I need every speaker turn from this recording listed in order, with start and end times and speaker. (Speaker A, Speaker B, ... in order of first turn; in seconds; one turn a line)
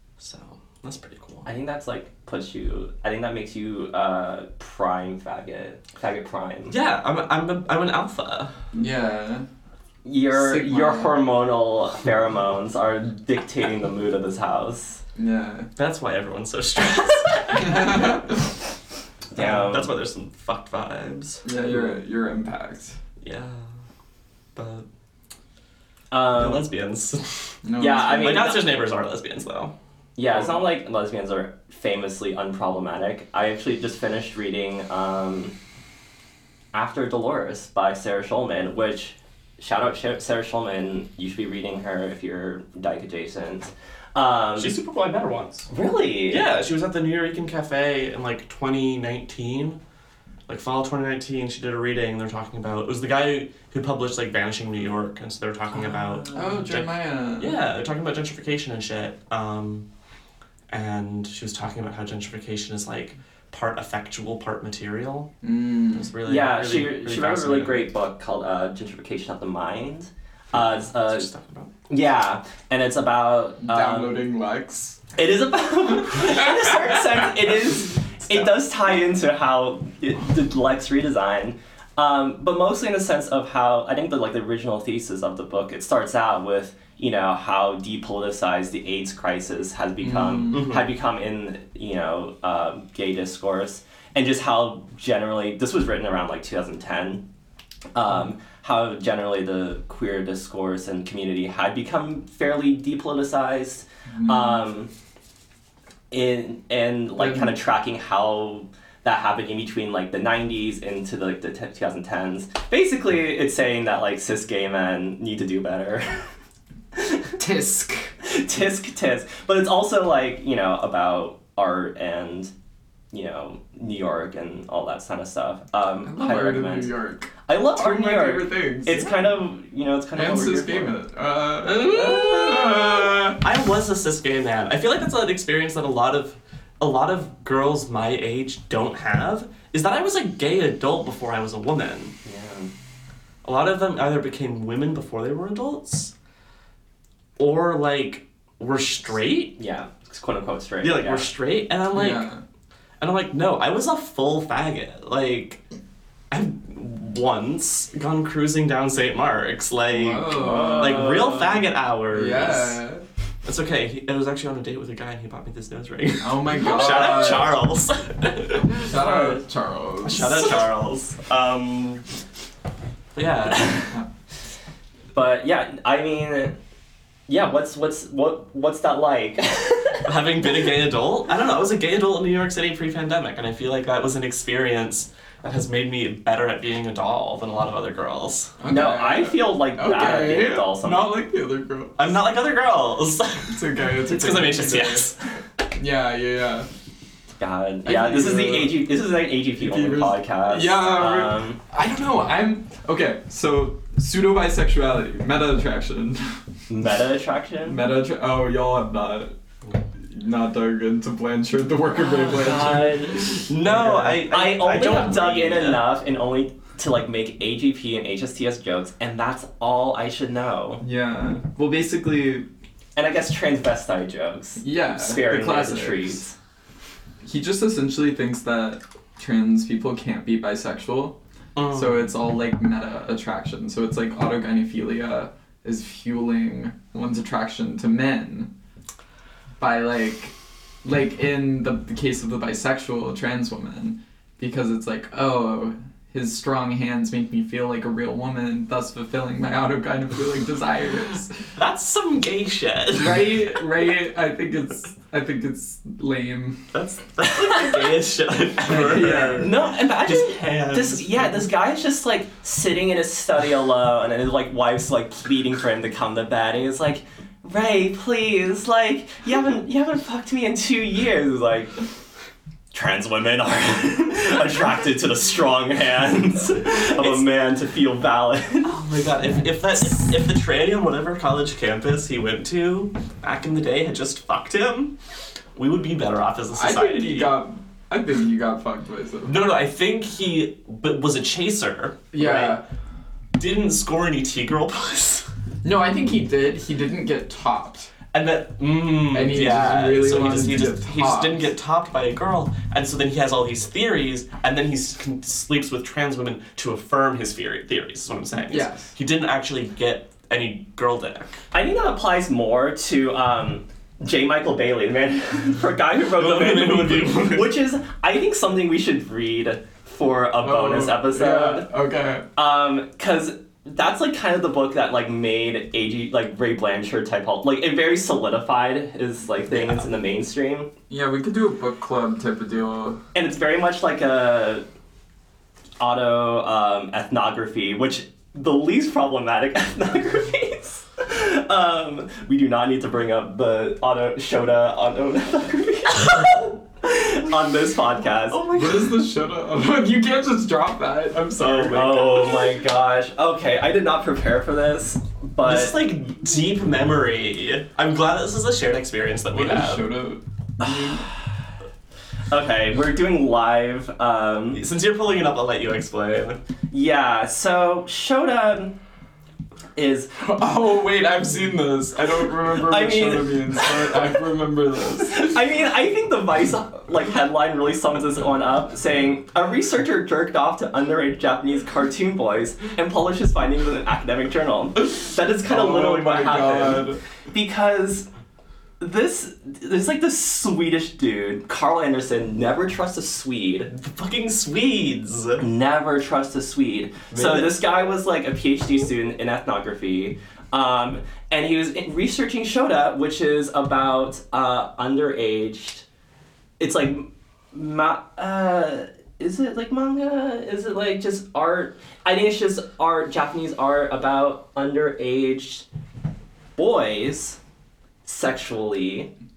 Speaker A: 0.2-1.5
Speaker B: 1.4-6.8
Speaker A: 6.7-8.5
Speaker C: 8.7-9.4
Speaker B: 10.0-15.0
Speaker C: 10.3-11.2
Speaker C: 15.2-15.7
Speaker A: 15.8-18.2
Speaker C: 17.6-18.3
Speaker B: 19.3-19.9
Speaker A: 19.4-21.4
Speaker C: 21.4-23.0
Speaker A: 23.2-23.7
Speaker A: 24.5-24.9
Speaker B: 26.1-26.7
Speaker A: 26.3-27.6
Speaker C: 27.6-28.5
Speaker B: 27.8-28.8
Speaker A: 28.1-29.7
Speaker B: 30.1-35.5
Speaker B: 36.7-44.8
Speaker A: 44.6-45.7
Speaker B: 45.7-46.4
Speaker A: 46.3-49.8
Speaker A: 50.5-56.9
Speaker C: 56.3-57.6
Speaker A: 57.4-59.9
Speaker A: 60.7-65.3
Speaker C: 65.4-66.1
Speaker A: 65.9-67.8
Speaker B: 66.2-71.3
Speaker A: 70.5-71.7
Speaker B: 71.9-74.3
Speaker C: 73.6-75.0
Speaker B: 75.2-97.2
Speaker C: 90.0-90.7
Speaker A: 90.5-90.9
Speaker B: 97.9-104.9
Speaker C: 104.2-104.6
Speaker B: 106.1-116.2
Speaker C: 107.2-107.5
Speaker B: 116.9-117.3
Speaker C: 117.4-118.1
Speaker B: 118.2-122.5
Speaker B: 123.1-126.9
Speaker C: 126.0-129.1
Speaker B: 127.5-130.9
Speaker C: 130.1-133.4
Speaker A: 131.6-142.1
Speaker B: 142.2-142.7
Speaker A: 143.4-146.1
Speaker A: 147.4-149.5
Speaker B: 149.6-151.3
Speaker A: 150.8-152.3
Speaker C: 151.9-152.4
Speaker A: 153.0-155.6
Speaker A: 156.3-162.8
Speaker C: 159.9-161.3
Speaker B: 160.3-161.6
Speaker C: 162.1-163.0
Speaker A: 163.4-168.9
Speaker C: 166.2-167.6
Speaker C: 168.7-170.6
Speaker B: 168.9-169.3
Speaker A: 170.0-172.0
Speaker A: 173.1-173.9
Speaker B: 173.5-173.8
Speaker B: 175.1-176.6
Speaker B: 177.3-180.2
Speaker A: 180.1-188.5
Speaker C: 188.6-192.1
Speaker B: 188.7-191.1
Speaker A: 192.0-195.2
Speaker C: 193.5-195.1
Speaker C: 195.7-196.7
Speaker B: 197.4-201.6
Speaker C: 197.8-198.8
Speaker C: 199.6-206.4
Speaker B: 206.7-207.8
Speaker C: 207.6-209.3
Speaker C: 209.9-214.2
Speaker B: 212.0-213.4
Speaker A: 213.5-215.8
Speaker B: 214.0-220.8
Speaker C: 220.8-222.4
Speaker B: 222.9-226.3
Speaker C: 224.6-226.2
Speaker C: 227.2-231.2
Speaker A: 231.6-232.0
Speaker C: 231.7-238.5
Speaker C: 239.6-251.4
Speaker A: 251.6-253.6
Speaker C: 252.9-256.7
Speaker A: 256.7-261.1
Speaker B: 257.4-257.9
Speaker C: 258.6-259.5
Speaker B: 258.7-271.8
Speaker B: 272.7-278.7
Speaker A: 276.9-277.2
Speaker A: 278.6-284.9
Speaker A: 285.5-287.4
Speaker C: 286.5-289.3
Speaker A: 289.2-292.6
Speaker C: 292.1-292.6
Speaker A: 293.4-295.3
Speaker C: 295.6-297.9
Speaker A: 298.1-311.4
Speaker C: 299.1-301.5
Speaker C: 308.5-308.9
Speaker B: 311.5-321.6
Speaker A: 316.1-317.6
Speaker C: 320.4-322.2
Speaker B: 322.4-330.7
Speaker A: 329.5-329.9
Speaker C: 330.9-333.0
Speaker B: 333.1-334.6
Speaker B: 335.8-349.0
Speaker C: 348.4-352.3
Speaker A: 351.4-352.4
Speaker B: 351.4-355.8
Speaker A: 355.4-359.9
Speaker C: 359.3-361.1
Speaker B: 360.6-361.4
Speaker B: 362.3-364.6
Speaker A: 364.5-366.4
Speaker B: 366.7-368.8
Speaker B: 369.8-370.1
Speaker C: 370.2-375.3
Speaker B: 372.3-374.2
Speaker B: 375.0-388.1
Speaker C: 385.4-387.0
Speaker B: 388.8-393.7
Speaker A: 393.7-395.4
Speaker B: 395.4-405.8
Speaker A: 397.1-397.5
Speaker B: 406.6-415.6
Speaker B: 416.6-417.4
Speaker B: 418.0-419.1